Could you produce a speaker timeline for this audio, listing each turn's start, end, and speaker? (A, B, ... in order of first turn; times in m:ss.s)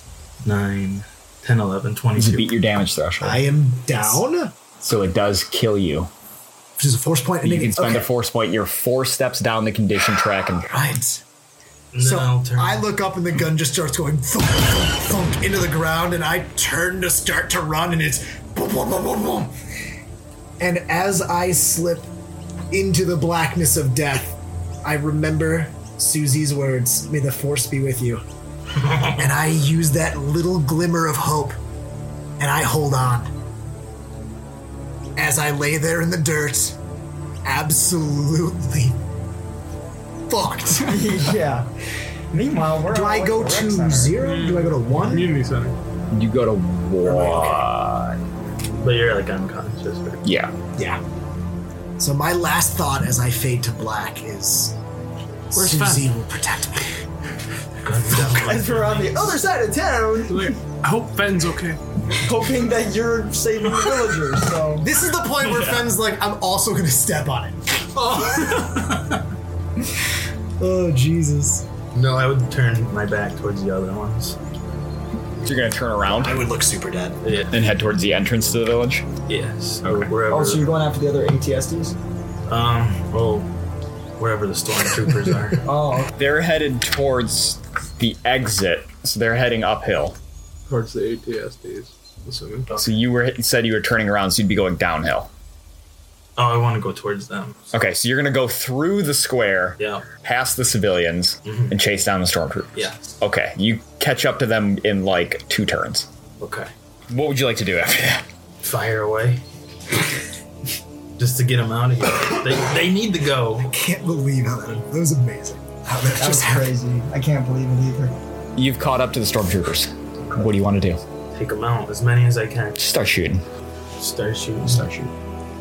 0:00.4-0:02.6 A
0:02.2-0:03.4 B
0:03.2-0:04.6 C
0:04.8-0:06.1 B
0:06.8-0:08.1 C
0:07.4-0:10.8 B
0:10.7-0:11.2 C
0:11.9-0:12.9 A
0:12.0-0:19.5 C
0:20.6-0:22.1 C
0:22.7-0:28.2 C
0:28.8-0:29.2 A
0:29.1-0:31.6 C
0:32.4-0:33.3 C
0:35.2-0:36.8 C
0:37.4-0:39.0 C
0:40.3-0:41.3 C
0:40.8-0:41.7 D
0:42.3-0:44.2 D
0:42.9-0:45.4 C
0:44.2-0:45.8 E
0:46.1-0:48.2 B
0:47.0-0:47.6 C
0:48.8-0:50.2 A
0:50.2-0:50.5 B
0:50.8-0:51.0 C
0:52.0-0:54.8 C
0:55.5-0:56.9 C
0:55.5-0:56.1 E
0:57.8-0:59.4 A
0:58.1-0:58.5 C
0:58.3-1:00.6 D
1:00.3-1:01.8 E
1:02.2-1:04.9 D
1:04.8-1:07.6 C
1:05.4-1:05.8 B
1:08.0-1:09.2 A
1:10.6-1:11.6 C
1:11.9-1:14.4 A
1:15.4-1:16.4 B
1:16.1-1:17.2 C
1:17.2-1:17.5 A
1:17.5-1:19.1 B
1:19.3-1:20.8 A
1:19.8-1:20.1 B
1:20.3-1:22.0 D
1:22.5-1:23.5 A
1:24.2-1:25.6 A
1:25.6-1:26.1 D
1:26.2-1:30.2 B
1:30.7-1:32.7 E
1:32.8-1:35.3 B
1:36.4-1:37.6 A
1:37.7-1:46.1 B
1:39.8-1:40.0 A
1:41.4-1:41.8 A
1:46.4-1:46.7 A
1:47.1-1:48.2 B
1:48.6-1:49.4 A
1:51.2-1:53.7 A
1:53.6-1:56.7 C
1:56.2-1:58.2 D
1:58.6-2:01.0 B
2:01.3-2:02.8 A
2:02.8-2:03.4 B
2:04.0-2:04.9 A
2:04.6-2:05.1 B